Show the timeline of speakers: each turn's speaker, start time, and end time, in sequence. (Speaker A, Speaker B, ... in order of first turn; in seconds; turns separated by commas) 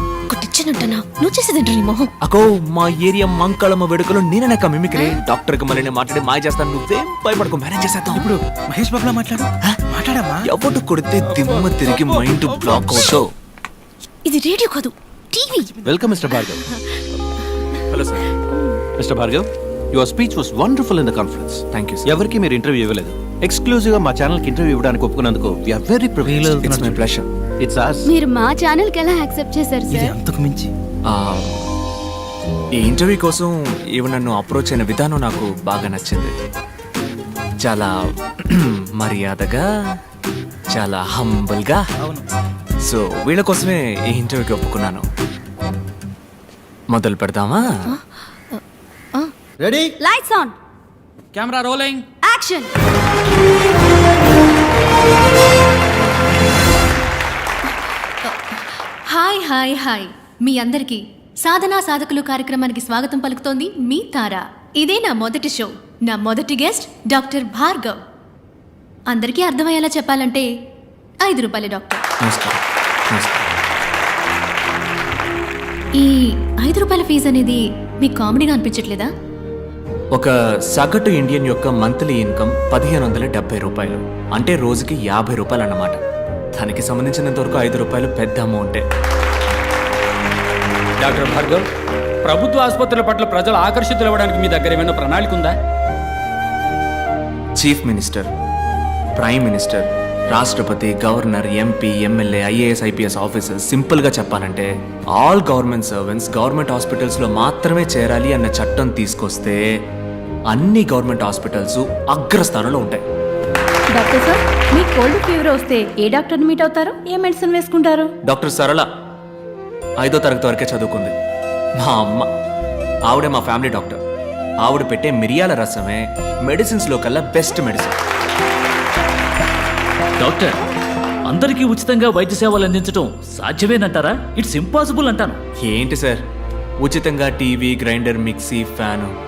Speaker A: 0.3-2.1, Speaker B: 2.2-8.3, Speaker C: 8.2-10.4, Speaker B: 10.4-13.3, Speaker A: 14.2-15.7, Speaker C: 15.6-15.9, Speaker D: 15.8-16.6, Speaker A: 16.3-17.0, Speaker B: 17.9-18.3, Speaker D: 19.0-27.0, Speaker B: 21.7-22.2, Speaker C: 26.2-26.9, Speaker B: 26.6-27.2, Speaker D: 27.6-28.1, Speaker E: 28.1-30.1, Speaker C: 29.9-30.7, Speaker B: 31.1-31.6, Speaker B: 32.8-36.3, Speaker B: 37.6-39.6, Speaker B: 40.7-41.8, Speaker B: 42.8-45.1, Speaker B: 46.9-47.7, Speaker E: 50.0-50.5, Speaker F: 51.3-52.0, Speaker E: 52.2-52.7, Speaker A: 58.2-68.0, Speaker A: 69.1-70.5, Speaker A: 71.2-72.0, Speaker B: 72.2-73.5, Speaker A: 76.0-79.1, Speaker B: 80.1-86.0, Speaker B: 86.5-88.8, Speaker F: 91.0-91.6, Speaker F: 92.2-95.5, Speaker B: 97.6-98.3, Speaker B: 99.2-109.6, Speaker B: 110.5-113.0, Speaker E: 113.9-118.1, Speaker B: 118.2-118.9, Speaker B: 120.0-121.1, Speaker B: 121.8-122.3, Speaker B: 123.1-124.0, Speaker B: 124.6-128.0, Speaker G: 130.2-130.5, Speaker G: 131.3-135.4, Speaker B: 135.6-136.2, Speaker B: 136.8-139.1